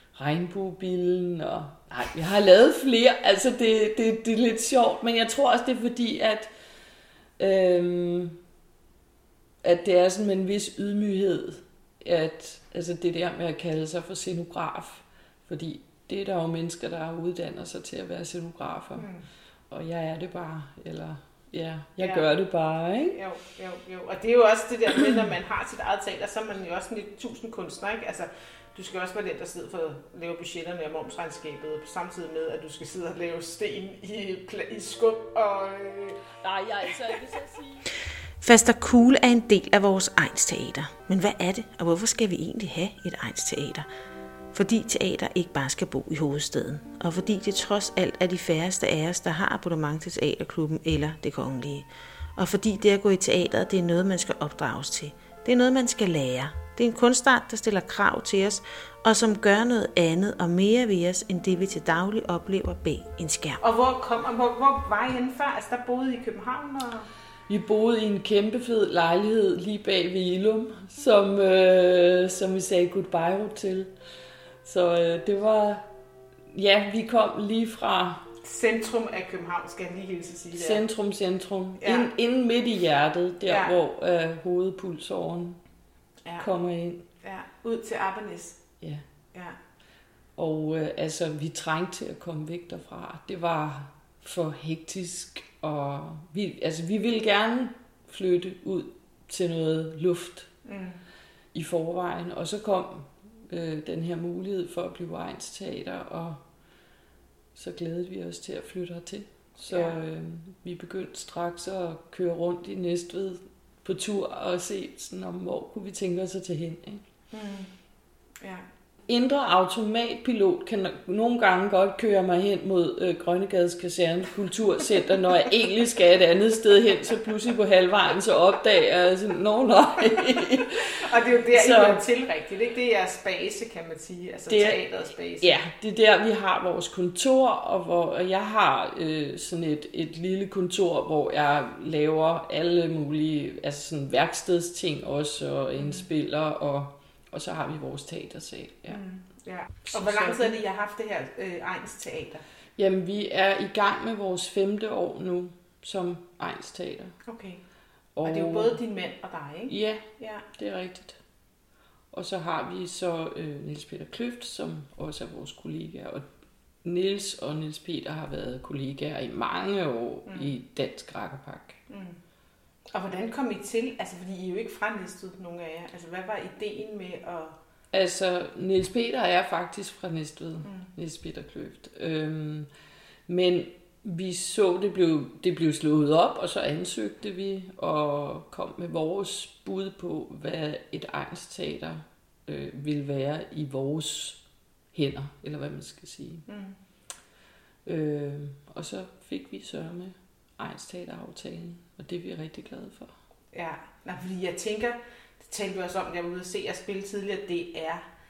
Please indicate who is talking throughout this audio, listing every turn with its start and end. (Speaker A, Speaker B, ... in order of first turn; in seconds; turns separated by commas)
Speaker A: 0.1-6.5, Speaker A: 7.4-8.4, Speaker A: 9.6-19.1, Speaker B: 18.9-19.2, Speaker A: 19.7-23.1, Speaker B: 22.0-22.2, Speaker B: 23.1-36.2, Speaker A: 36.4-37.9, Speaker C: 38.4-43.9, Speaker C: 44.5-63.6, Speaker B: 63.6-67.1, Speaker A: 67.5-73.9, Speaker A: 74.6-75.8, Speaker A: 76.5-78.2, Speaker B: 78.4-80.8, Speaker A: 80.5-85.6, Speaker B: 81.8-82.1, Speaker B: 83.5-83.7, Speaker A: 86.4-87.0, Speaker B: 87.2-88.6, Speaker A: 90.4-100.5, Speaker B: 100.7-101.0, Speaker A: 101.5-106.4, Speaker A: 107.5-117.0, Speaker B: 109.7-110.0, Speaker B: 117.3-117.7, Speaker A: 119.1-132.0, Speaker B: 131.0-135.6, Speaker A: 134.5-134.8, Speaker A: 135.4-149.0, Speaker B: 145.8-146.1, Speaker B: 148.9-152.4, Speaker A: 149.9-150.6, Speaker A: 152.8-157.2, Speaker B: 157.2-157.6, Speaker A: 158.2-158.8, Speaker B: 158.2-160.4, Speaker A: 159.7-160.1, Speaker A: 160.6-161.2, Speaker A: 162.1-166.2, Speaker A: 166.8-171.8, Speaker B: 170.3-170.5, Speaker B: 171.9-172.2, Speaker B: 172.9-177.5, Speaker A: 177.9-182.7, Speaker A: 183.3-194.4, Speaker A: 194.9-196.4, Speaker B: 196.5-196.8, Speaker A: 197.8-203.2, Speaker B: 203.5-208.0